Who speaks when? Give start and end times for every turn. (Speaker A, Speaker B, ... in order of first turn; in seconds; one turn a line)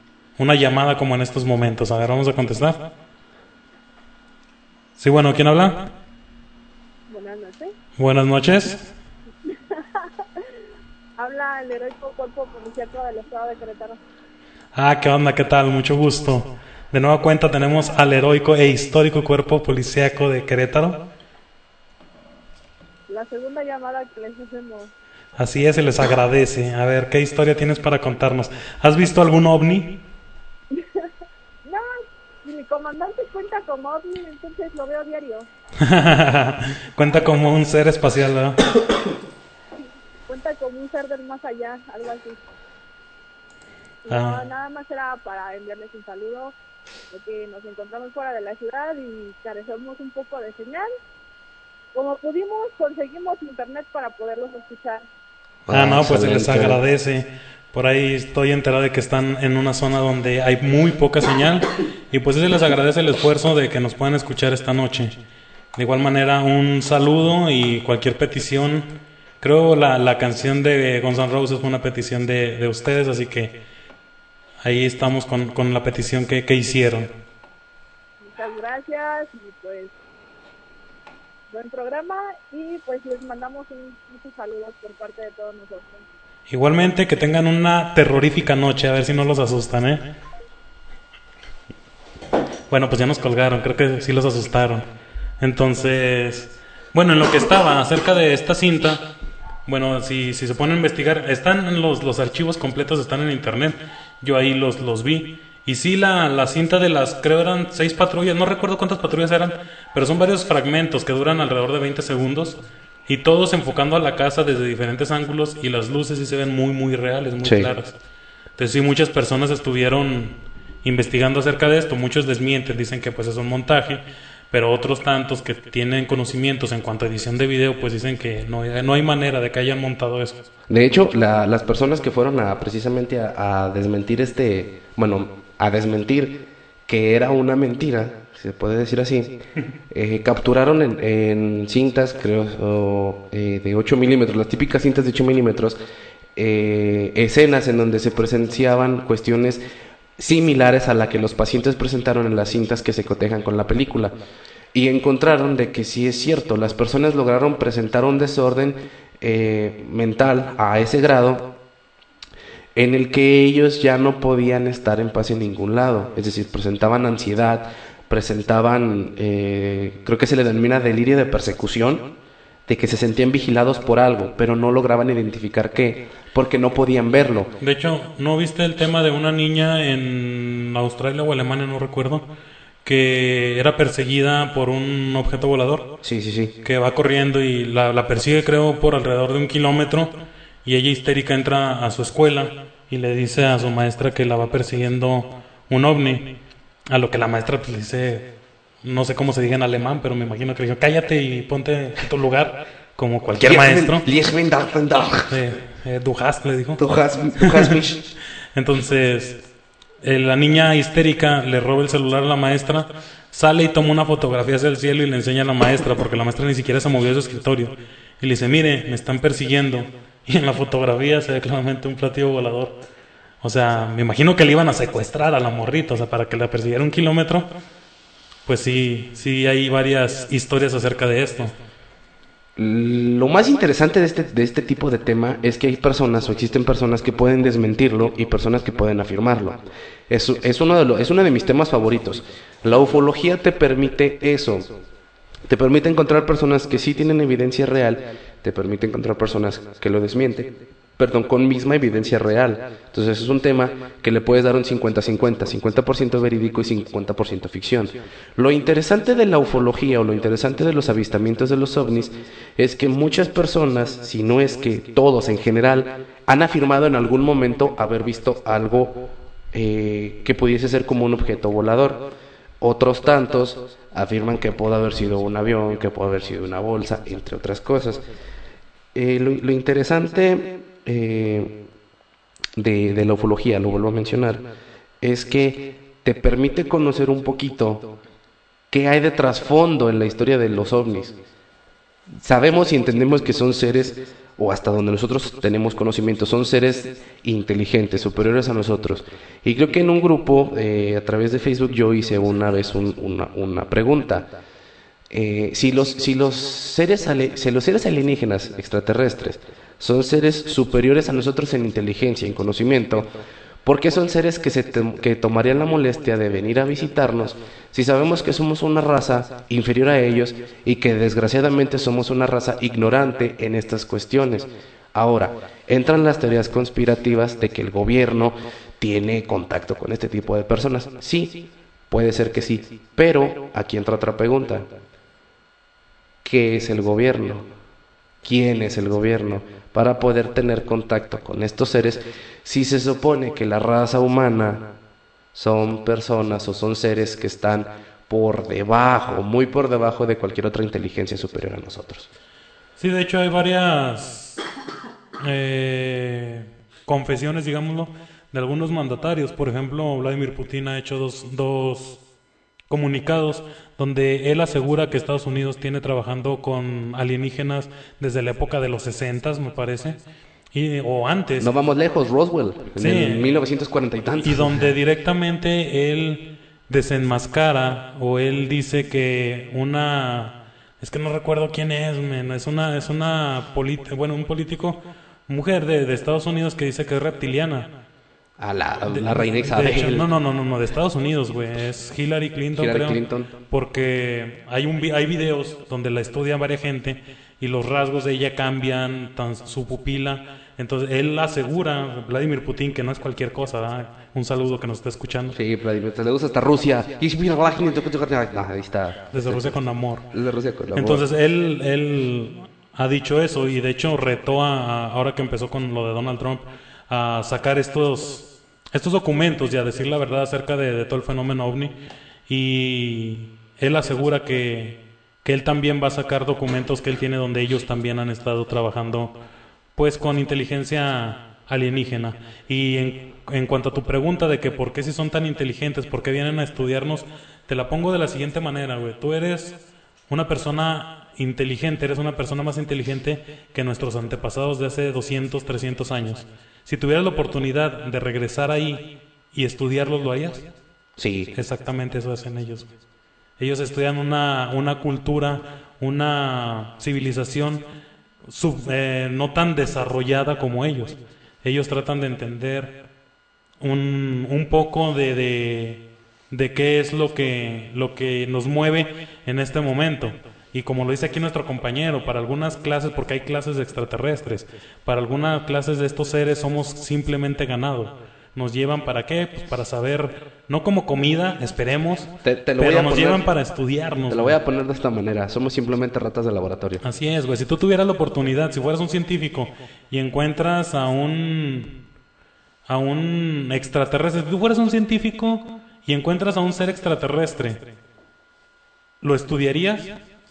Speaker A: 0.4-2.8
Speaker A: 5.0-5.9
Speaker B: 7.1-7.7
Speaker A: 8.0-8.9
Speaker B: 9.5-10.4
Speaker B: 11.2-14.0
Speaker A: 14.8-21.0
Speaker B: 23.1-24.9
Speaker A: 25.4-30.0
Speaker B: 30.7-31.1
Speaker B: 31.6-31.9
Speaker B: 32.4-35.5
Speaker A: 35.8-38.6
Speaker B: 40.3-42.4
Speaker B: 44.0-46.5
Speaker A: 44.1-44.4
Speaker B: 47.1-50.9
Speaker B: 51.9-55.0
Speaker C: 55.7-56.8
Speaker A: 55.7-65.2
Speaker A: 65.8-68.9
Speaker A: 69.4-73.6
Speaker A: 74.6-77.1
Speaker B: 78.2-79.9
Speaker B: 81.5-86.0
Speaker A: 86.5-90.1
Speaker A: 92.7-94.8
Speaker A: 95.4-99.1
Speaker A: 99.7-118.0
Speaker C: 117.4-117.7
Speaker A: 118.6-130.5
Speaker C: 130.7-145.8
Speaker C: 146.4-149.6
Speaker C: 150.2-154.2
Speaker C: 154.7-161.5
Speaker C: 162.8-172.1
Speaker C: 172.7-177.5
Speaker A: 177.6-182.3
Speaker A: 182.8-185.9
Speaker C: 186.0-186.6
Speaker A: 186.6-196.4
Speaker A: 196.9-198.3
Speaker A: 198.8-204.1
Speaker C: 203.3-205.4
Speaker A: 205.3-206.8
Speaker C: 206.8-208.1
Speaker A: 207.4-207.8
Speaker A: 208.5-209.4
Speaker A: 210.0-222.8
Speaker A: 223.4-227.5
Speaker A: 228.5-231.5
Speaker C: 232.6-239.6
Speaker C: 240.1-244.7
Speaker C: 245.5-269.0
Speaker C: 269.5-272.1
Speaker C: 272.6-278.0
Speaker C: 278.9-281.6
Speaker C: 282.6-284.4
Speaker C: 285.0-287.9
Speaker C: 288.7-291.2
Speaker C: 292.2-304.3
Speaker C: 305.1-313.1
Speaker C: 313.6-334.7
Speaker C: 336.2-337.5
Speaker C: 338.2-344.7
Speaker C: 345.3-352.1
Speaker A: 352.8-354.4
Speaker A: 355.2-362.0
Speaker A: 362.7-370.0
Speaker A: 370.5-371.5
Speaker C: 371.4-374.8
Speaker A: 372.8-373.3
Speaker A: 374.2-387.7
Speaker C: 388.4-390.1
Speaker A: 388.9-405.4
Speaker C: 392.6-393.3
Speaker C: 405.3-409.6
Speaker A: 409.1-410.1
Speaker C: 410.1-411.0
Speaker A: 410.8-421.8
Speaker A: 422.3-429.1
Speaker A: 429.8-450.5
Speaker C: 451.0-451.3
Speaker A: 451.4-452.7
Speaker A: 453.4-457.6
Speaker A: 458.2-462.8
Speaker A: 463.6-484.4
Speaker C: 482.2-483.3
Speaker C: 484.1-486.8
Speaker A: 486.8-491.8
Speaker A: 492.7-497.6
Speaker A: 499.0-500.0